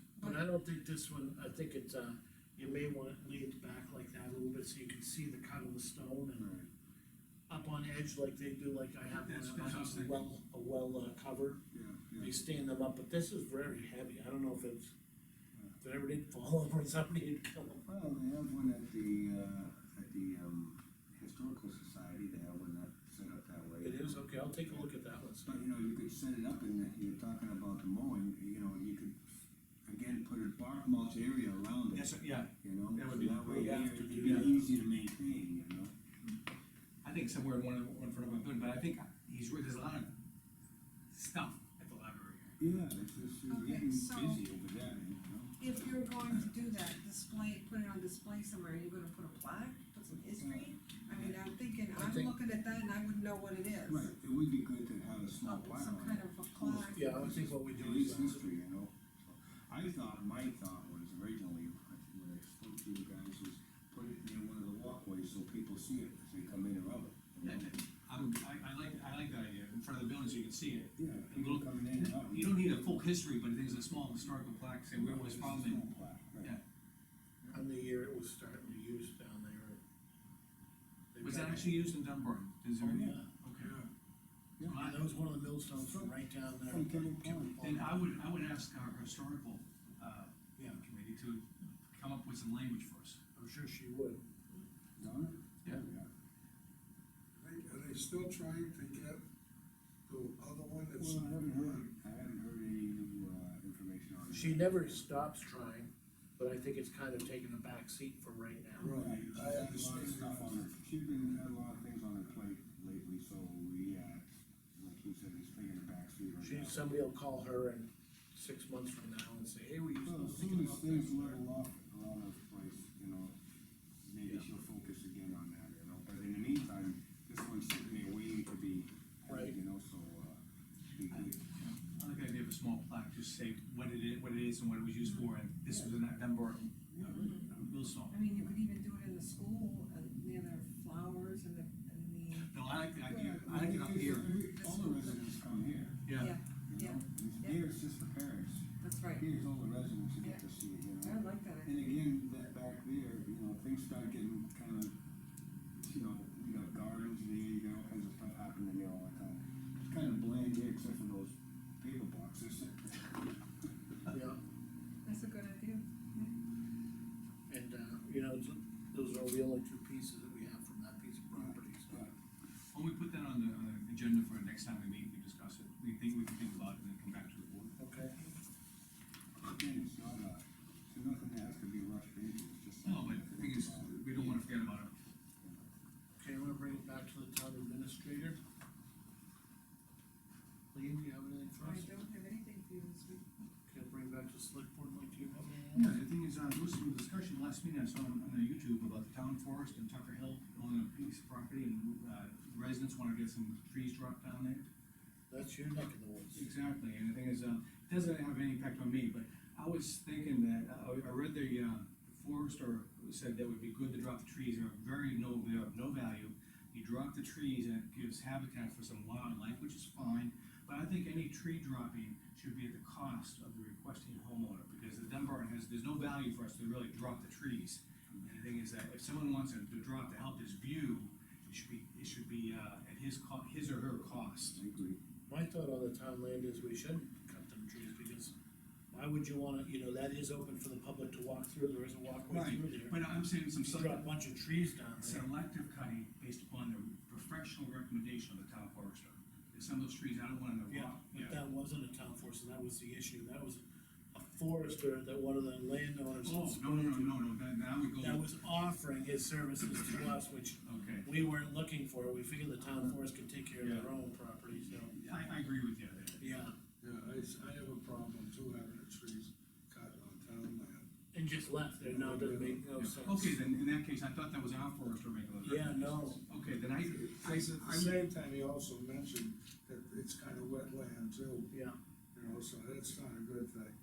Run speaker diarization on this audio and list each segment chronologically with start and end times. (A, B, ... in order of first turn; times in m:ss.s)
0:00.2-0:00.4 A
0:00.2-0:06.5 B
0:06.3-0:06.7 C
0:07.5-0:11.6 B
0:09.1-0:10.3 D
0:11.7-0:12.4 C
0:12.2-0:14.9 B
0:15.8-0:17.9 B
0:17.8-0:24.8 C
0:23.8-0:25.6 B
0:25.4-0:29.2 C
0:29.8-0:35.9 C
0:31.9-0:34.5 D
0:33.5-0:34.6 B
0:37.0-0:40.1 D
0:41.1-0:42.6 D
0:42.6-0:46.0 C
0:43.5-0:44.4 A
0:45.6-0:54.1 A
0:50.3-0:50.7 C
0:52.0-0:52.3 B
0:53.8-1:07.8 C
0:55.4-0:57.1 A
0:56.9-0:58.5 B
1:07.4-1:15.9 D
1:11.0-1:12.6 C
1:15.0-1:16.6 C
1:17.5-1:19.8 B
1:21.1-1:21.9 B
1:21.2-1:23.8 D
1:22.8-1:23.3 B
1:23.6-1:23.9 E
1:24.6-1:24.9 C
1:24.6-1:25.0 D
1:24.6-1:28.1 B
1:25.8-1:27.6 C
1:27.6-1:33.2 D
1:33.4-1:34.2 B
1:35.0-1:36.1 C
1:37.4-1:39.2 E
1:40.1-1:41.8 E
1:41.0-1:45.0 C
1:44.3-1:49.0 B
1:48.8-1:50.6 E
1:48.8-1:54.2 C
1:54.8-1:56.8 C
1:56.4-2:01.4 B
2:00.0-2:03.4 C
2:04.0-2:10.4 C
2:09.3-2:09.5 B
2:10.9-2:11.4 C
2:11.1-2:18.2 D
2:16.9-2:17.4 C
2:17.0-2:17.4 A
2:18.1-2:22.5 A
2:22.4-2:24.3 D
2:23.1-2:26.0 C
2:24.5-2:25.2 A
2:26.1-2:26.3 D
2:26.1-2:27.6 A
2:26.7-2:34.9 C
2:28.8-2:29.2 A
2:31.0-2:31.8 A
2:35.8-2:43.2 C
2:44.1-2:44.4 B
2:45.0-2:46.3 A
2:47.5-2:51.9 B
2:51.3-2:52.1 C
2:52.7-2:57.8 D
2:57.8-2:58.2 B
2:59.4-3:04.4 C
3:02.8-3:04.9 D
3:06.2-3:08.4 B
3:10.7-3:11.9 B
3:11.6-3:13.2 A
3:13.7-3:15.9 B
3:15.7-3:24.6 D
3:25.3-3:26.5 B
3:26.3-3:54.6 D
3:54.6-3:55.0 C
3:55.3-3:58.3 B
3:58.9-4:03.0 B
4:02.3-4:04.1 D
4:03.6-4:05.3 B
4:05.0-4:11.4 D
4:10.7-4:13.6 B
4:14.1-4:17.2 B
4:16.2-4:18.2 D
4:18.0-4:24.9 B
4:20.6-4:21.3 D
4:23.6-4:23.9 D
4:24.6-4:26.4 D
4:26.2-4:26.5 B
4:26.8-4:30.9 E
4:31.1-4:33.4 B
4:31.8-4:32.6 E
4:32.8-4:38.0 D
4:35.4-4:36.2 B
4:36.9-4:41.5 E
4:37.7-4:38.0 B
4:41.5-4:41.8 B
4:42.1-4:43.7 E